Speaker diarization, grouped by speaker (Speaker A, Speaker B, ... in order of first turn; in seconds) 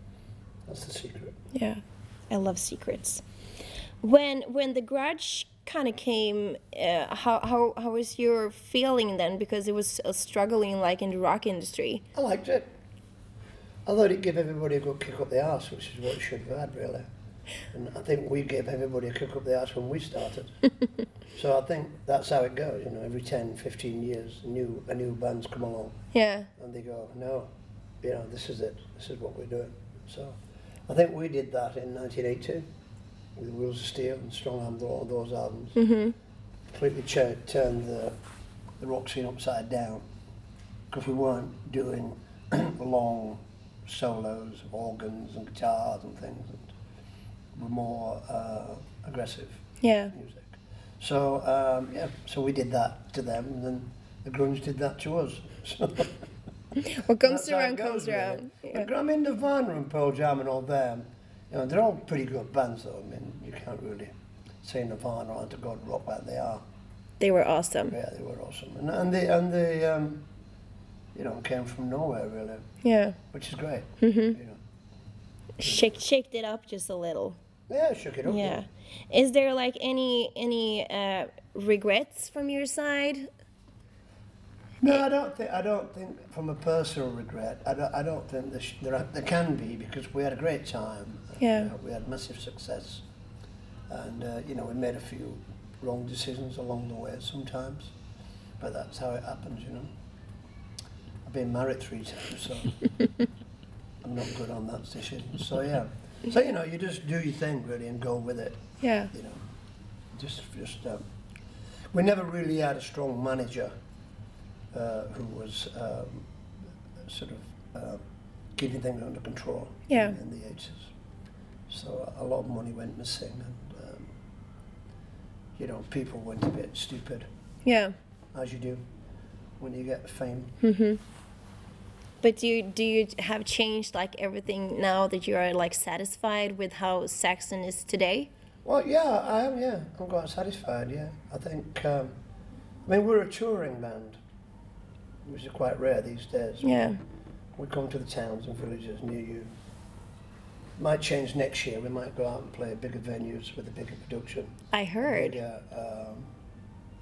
Speaker A: 0.7-1.4, 12.2-12.7, 13.9-17.1, 17.7-20.5, 21.3-26.0, 26.6-27.5, 28.0-32.7, 33.4-35.8, 36.7-38.2, 38.8-40.0, 40.9-46.7, 47.5-56.1, 57.2-66.6, 67.9-70.2, 71.1-72.6, 73.3-74.6, 75.6-76.0, 77.7-78.6, 84.8-93.0, 93.9-97.9, 98.6-99.9, 101.2-102.8, 104.0-109.4, 110.2-111.0, 111.9-113.7, 114.7-116.3, 117.0-118.0, 118.6-120.9, 121.7-124.1, 125.6-127.3, 128.3-128.8, 129.6-130.5, 138.7-142.2, 142.9-144.2, 145.2-146.9, 147.6-149.5, 150.8-156.3
Speaker B: 1.5-3.2, 4.0-12.0, 26.1-26.5, 35.8-36.2, 49.8-50.1, 56.8-58.9, 67.2-68.0, 72.8-73.2, 74.0-74.4, 75.6-77.4, 78.2-83.3, 91.4-91.7, 108.8-109.1, 119.9-120.2, 127.7-128.0, 130.6-131.0, 132.2-138.3, 146.6-147.0, 154.7-155.4